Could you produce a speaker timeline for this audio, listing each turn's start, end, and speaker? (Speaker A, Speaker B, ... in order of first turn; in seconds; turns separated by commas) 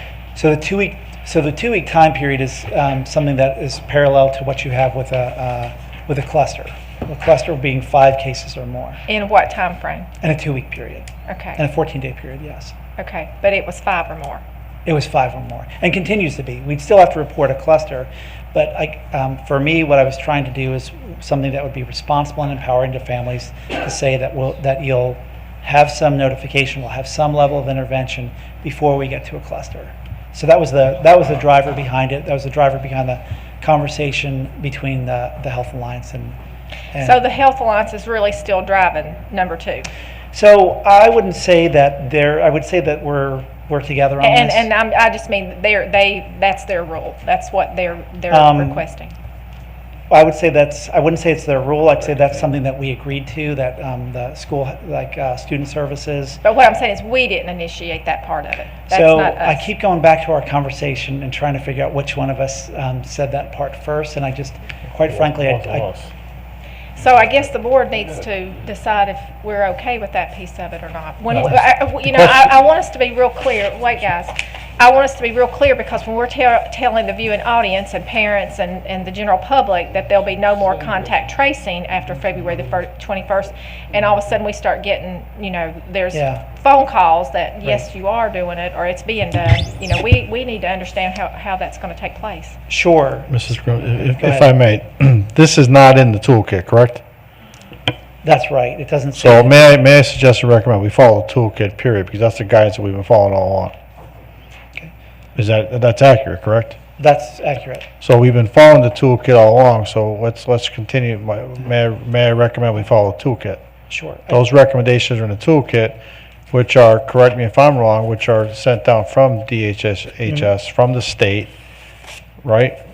Speaker A: 0.3-9.0, Speaker B: 9.1-10.1, Speaker A: 10.2-12.7, Speaker B: 11.3-11.6, Speaker B: 13.0-14.4, Speaker A: 14.8-36.4, Speaker A: 36.9-37.2, Speaker B: 37.0-39.9, Speaker A: 40.3-44.7, Speaker B: 44.2-49.1, Speaker A: 48.3-48.9, Speaker A: 50.1-56.4, Speaker B: 56.4-59.6, Speaker A: 58.9-65.9, Speaker C: 65.2-66.1, Speaker B: 67.0-92.5, Speaker A: 86.1-86.4, Speaker A: 92.7-93.3, Speaker C: 93.3-97.0, Speaker A: 94.2-94.5, Speaker A: 98.2-99.7, Speaker C: 99.2-103.7, Speaker C: 105.3-106.8, Speaker A: 107.0-107.9, Speaker C: 108.0-113.6, Speaker A: 113.9-114.4, Speaker C: 114.3-121.5, Speaker C: 122.4-122.8